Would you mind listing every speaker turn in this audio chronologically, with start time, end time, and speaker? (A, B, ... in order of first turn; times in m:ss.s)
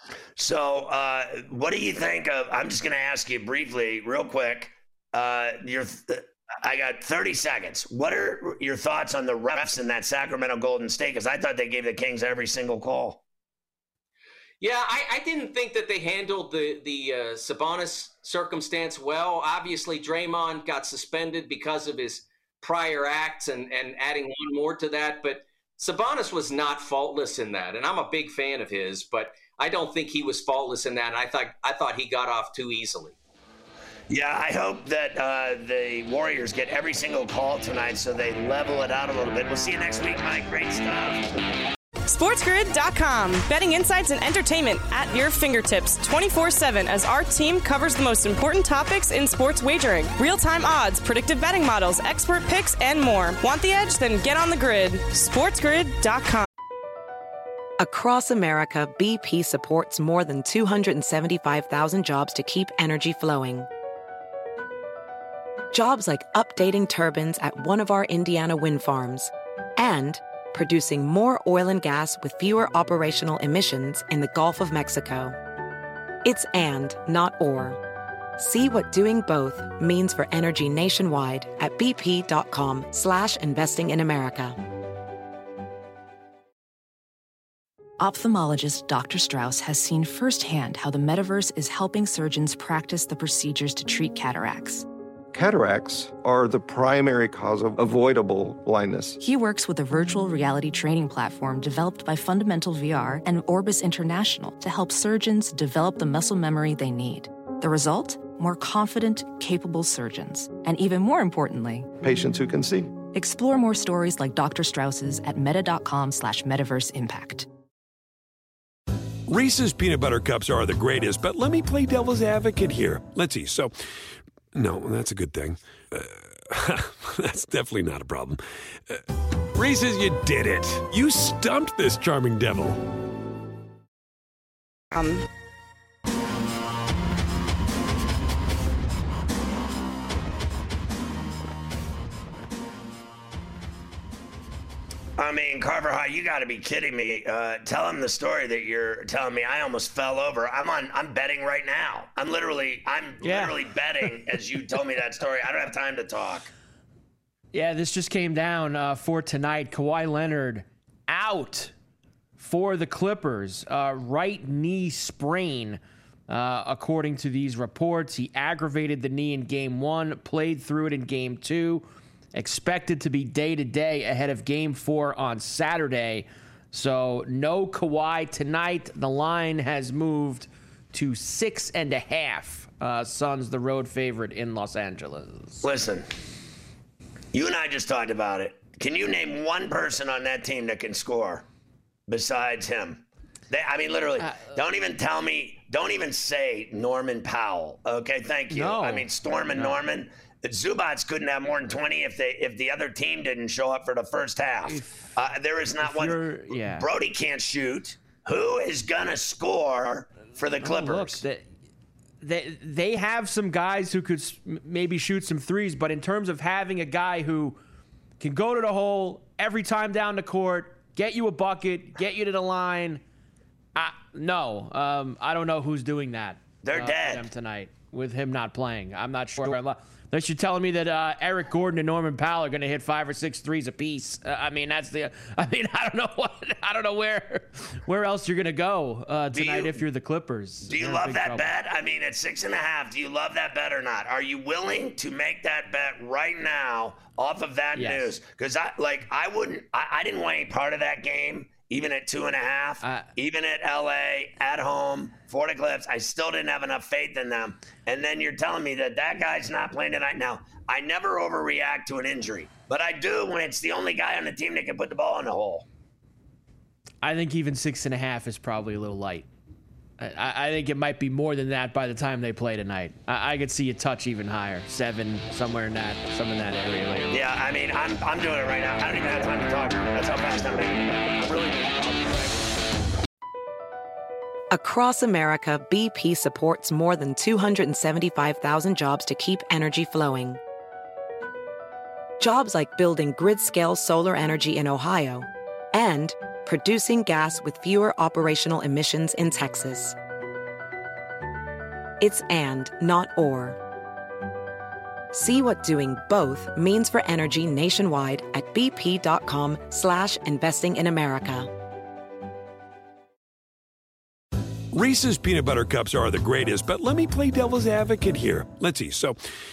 0:00.4-0:13.2 A
0:14.6-0:33.2 B
0:34.1-0:41.2 A
0:42.1-0:56.5 C
0:57.8-1:03.7 D
1:05.7-1:15.4 D
1:16.2-1:17.8 D
1:18.4-1:24.6 D
1:28.0-1:34.8 E
1:35.3-1:39.2 F
1:39.2-1:51.9 E
1:52.0-1:52.9 F
1:53.1-1:57.5 E
1:59.3-2:03.8 G
2:04.5-2:12.9 G
2:14.9-2:15.2 C
2:25.2-2:36.5 A
2:33.2-2:33.6 H
2:37.5-2:41.7 H
2:42.4-3:05.6 H
3:05.6-3:06.1 A
3:07.3-3:11.5 A
3:12.1-3:31.2 A
3:14.2-3:14.6 H
3:18.5-3:19.8 H
3:24.7-3:25.2 H
3:25.8-3:26.9 H
3:30.6-3:31.4 H
3:32.2-3:37.6 H
3:38.2-3:43.0 H
3:43.8-4:01.5 H
3:46.6-3:47.3 A
3:59.3-3:59.8 A
4:00.7-4:25.7 A
4:07.8-4:08.2 H
4:12.8-4:13.1 H
4:27.0-4:29.3 H
4:30.0-4:37.2 H
4:37.1-4:42.4 A
4:44.5-4:50.4 D
4:52.2-5:00.0 D
5:02.0-5:03.6 D
5:05.1-5:11.5 D
5:14.7-5:19.2 G